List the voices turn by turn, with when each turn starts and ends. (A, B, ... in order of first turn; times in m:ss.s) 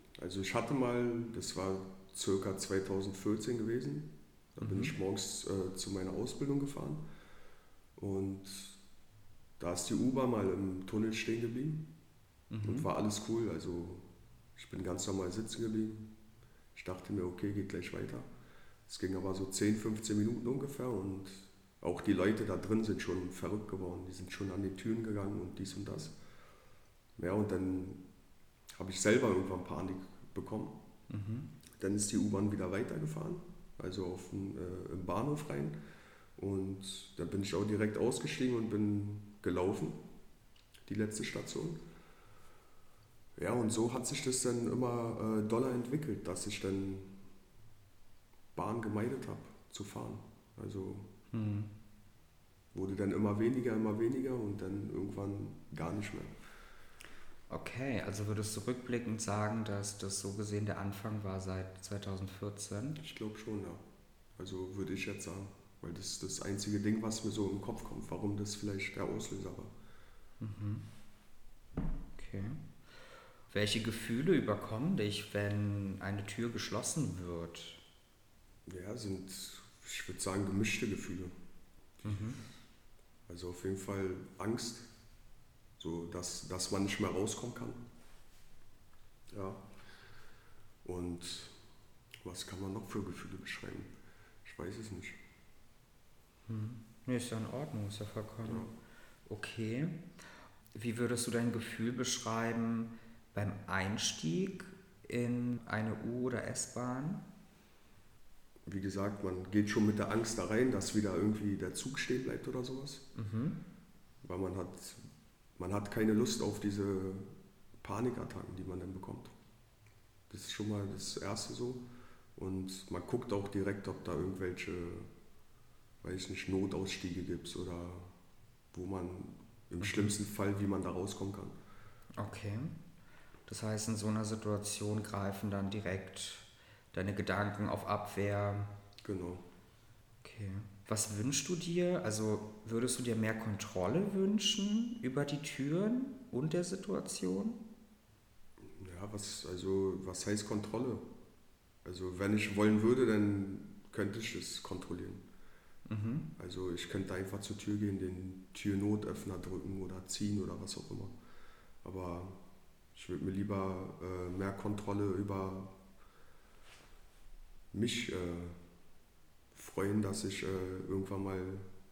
0:00.2-0:07.0 A
0:04.6-0:05.0 B
0:08.0-0:08.8 A
0:09.6-0:11.9 A
0:12.5-0:12.9 B
0:12.6-0:16.1 A
0:16.8-0:18.3 A
0:18.9-0:26.2 A
0:27.2-0:28.0 A
0:28.8-0:30.8 A
0:31.1-0:31.5 B
0:31.8-0:35.8 A
0:36.4-0:40.0 A
0:40.9-0:41.8 A
0:43.4-0:47.2 A
0:48.6-0:51.1 A
0:51.3-0:51.7 B
0:52.7-0:56.3 A
0:57.5-1:03.0 B
1:03.0-1:03.8 A
1:04.4-1:09.7 A
1:10.4-1:10.8 B
1:12.2-1:12.6 B
1:13.5-1:17.8 B
1:18.7-1:21.3 A
1:22.0-1:22.3 A
1:22.0-1:22.4 B
1:23.3-1:24.9 A
1:25.8-1:27.8 A
1:29.3-1:29.6 A
1:30.8-1:31.6 A
1:32.2-1:33.9 A
1:34.4-1:35.2 A
1:36.5-1:38.7 B
1:38.4-1:38.7 A
1:39.3-1:40.0 B
1:40.7-1:47.2 B
1:48.7-1:53.1 A
1:53.2-1:53.6 B
1:54.2-1:55.0 A
1:55.6-1:59.3 A
2:00.3-2:01.8 A
2:02.4-2:05.1 A
2:06.0-2:08.1 A
2:08.7-2:11.6 A
2:09.8-2:10.1 B
2:12.2-2:12.8 B
2:13.5-2:18.7 B
2:19.0-2:19.4 A
2:20.2-2:27.6 B
2:28.6-2:31.0 A
2:31.8-2:35.2 A
2:35.9-2:36.3 B
2:36.4-2:41.2 A
2:41.8-2:42.4 A
2:42.9-2:45.7 A
2:47.7-2:48.6 A
2:49.5-2:51.7 A